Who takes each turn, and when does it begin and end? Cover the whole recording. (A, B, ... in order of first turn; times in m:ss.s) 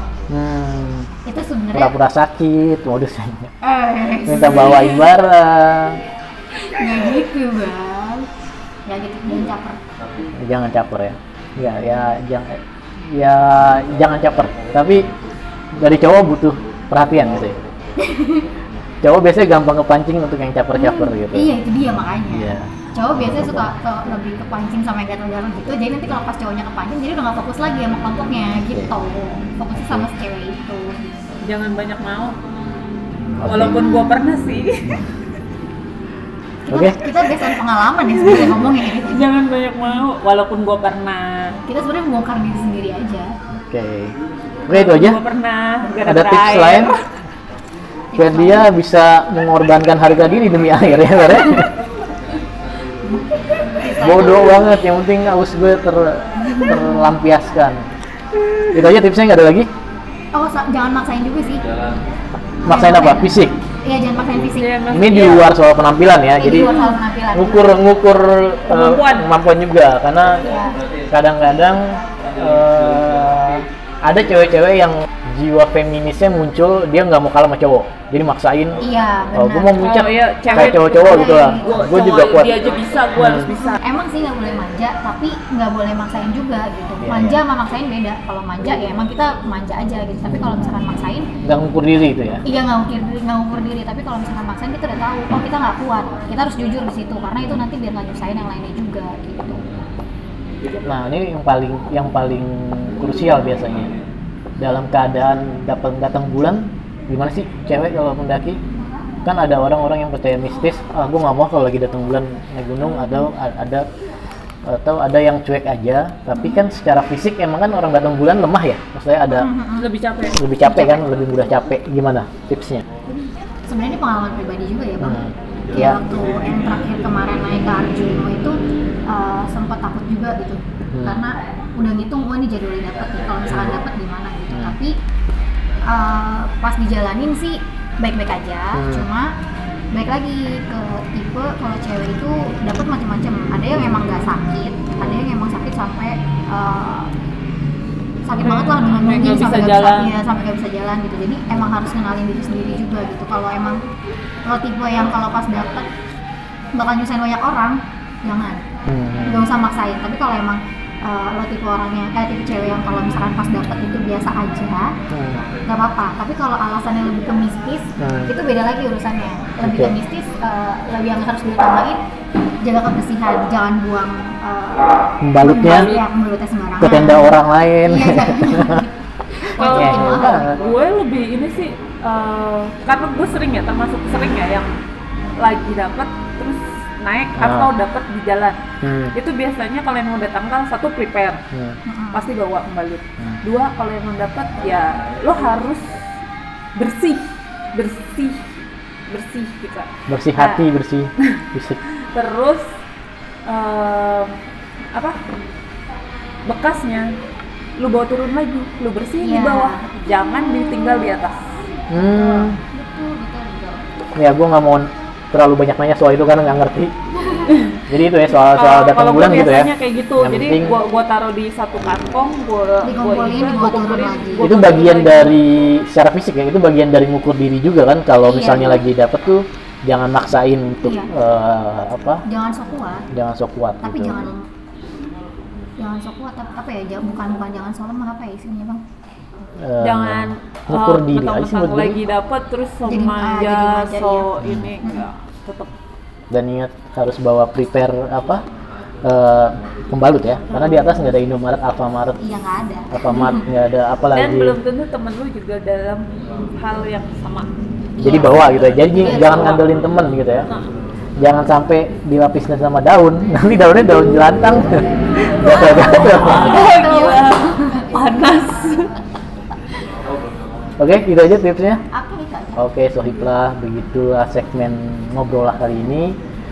0:00.3-0:01.1 A
0:01.2-0:01.9 B
0:01.7-0:03.5 A
0:03.6-0:05.1 B
0:04.2-0:06.0 A
0:06.6-0:08.3 B
0:08.9-0:09.8 B
0:10.4-0:15.1 A
0:15.8-0:17.6 A
0:18.0-0:18.5 B
0:19.0-0:21.5 A
0:20.7-0:31.3 B
0:22.3-0:23.7 A
0:29.8-0:30.0 A
0:31.4-0:32.4 C
0:33.4-0:33.8 A
0:33.4-0:35.0 C
0:33.8-0:34.1 B
0:36.6-0:39.2 B
0:36.7-0:37.0 A
0:38.2-0:41.6 C
0:41.7-0:43.4 B
0:43.5-0:44.1 A
0:44.6-0:45.2 A
0:44.7-0:47.0 C
0:46.0-0:46.9 A
0:48.1-0:48.7 B
0:48.1-0:51.7 A
0:53.7-0:54.6 B
0:53.9-0:57.9 A
0:56.4-0:57.1 B
0:58.4-0:58.9 C
0:58.7-0:59.7 A
1:00.3-1:01.6 B
1:02.6-1:03.5 A
1:02.7-1:04.7 B
1:04.5-1:05.5 C
1:04.9-1:06.7 A
1:06.4-1:07.8 B
1:06.6-1:06.9 C
1:07.3-1:10.4 A
1:08.7-1:09.3 C
1:10.4-1:10.8 B
1:11.1-1:18.8 A
1:18.8-1:19.9 B
1:19.3-1:22.6 A
1:19.8-1:23.8 C
1:20.5-1:21.8 B
1:23.2-1:23.5 A
1:23.7-1:31.3 B
1:27.0-1:27.4 A
1:30.3-1:30.7 A
1:31.4-1:32.4 A
1:32.4-1:39.6 B
1:40.8-1:43.9 A
1:44.6-1:48.6 A
1:49.2-1:53.9 A
1:54.6-1:59.5 A
1:59.3-1:59.9 B
1:59.8-2:00.4 C
2:00.3-2:02.9 A
2:00.6-2:01.1 B
2:03.7-2:08.6 B
2:05.0-2:06.0 A
2:09.1-2:15.0 B
2:10.9-2:11.2 A
2:13.4-2:13.8 A
2:14.5-2:14.8 A
2:15.9-2:19.3 B
2:18.7-2:19.1 A
2:19.9-2:27.1 B
2:28.2-2:33.8 B
2:28.4-2:30.1 C
2:34.4-2:35.9 B
2:36.7-2:38.6 B
2:38.9-2:39.5 A
2:39.2-2:44.9 B
2:45.1-2:45.4 A
2:45.7-2:52.0 B
2:48.0-2:48.3 A
2:49.6-2:49.9 A
2:52.6-3:00.5 B
2:55.2-2:55.9 A
2:55.6-2:56.0 C
2:56.8-2:58.9 A
2:59.6-3:04.7 C
2:59.6-3:00.6 A
3:05.4-3:08.6 C
3:07.4-3:07.7 A
3:08.8-3:09.2 A
3:09.1-3:11.4 C
3:11.9-3:12.3 B
3:12.1-3:15.9 C
3:16.7-3:18.5 C
3:19.1-3:20.7 C
3:20.1-3:21.8 A
3:21.2-3:22.6 C
3:23.4-3:24.4 C
3:24.9-3:25.2 C
3:26.4-3:27.1 C
3:27.8-3:31.5 C
3:29.2-3:29.9 B
3:31.9-3:32.6 A
3:32.0-3:33.8 B
3:34.2-3:36.9 A
3:37.2-3:37.5 B
3:37.5-3:37.8 C
3:37.9-3:40.8 A
3:38.4-3:45.4 C
3:42.8-3:44.6 B
3:44.4-3:52.2 A
3:48.2-3:48.8 B
3:50.8-3:51.1 B
3:52.3-3:53.1 B
3:53.1-3:54.3 A
3:53.8-3:54.4 B
3:55.8-3:58.8 B
3:59.6-4:02.0 A
3:59.8-4:05.7 C
4:02.9-4:04.3 B
4:04.4-4:04.7 A
4:06.3-4:08.4 A
4:09.0-4:12.2 A
4:12.2-4:13.4 B
4:12.9-4:14.6 A
4:14.1-4:16.0 C
4:16.6-4:17.5 C
4:18.0-4:18.4 B
4:18.0-4:20.5 A
4:19.0-4:19.6 B
4:19.3-4:19.6 C
4:21.2-4:26.7 A
4:25.4-4:27.9 B
4:25.9-4:28.9 C
4:30.8-4:31.8 A
4:31.9-4:32.7 B
4:32.6-4:36.2 A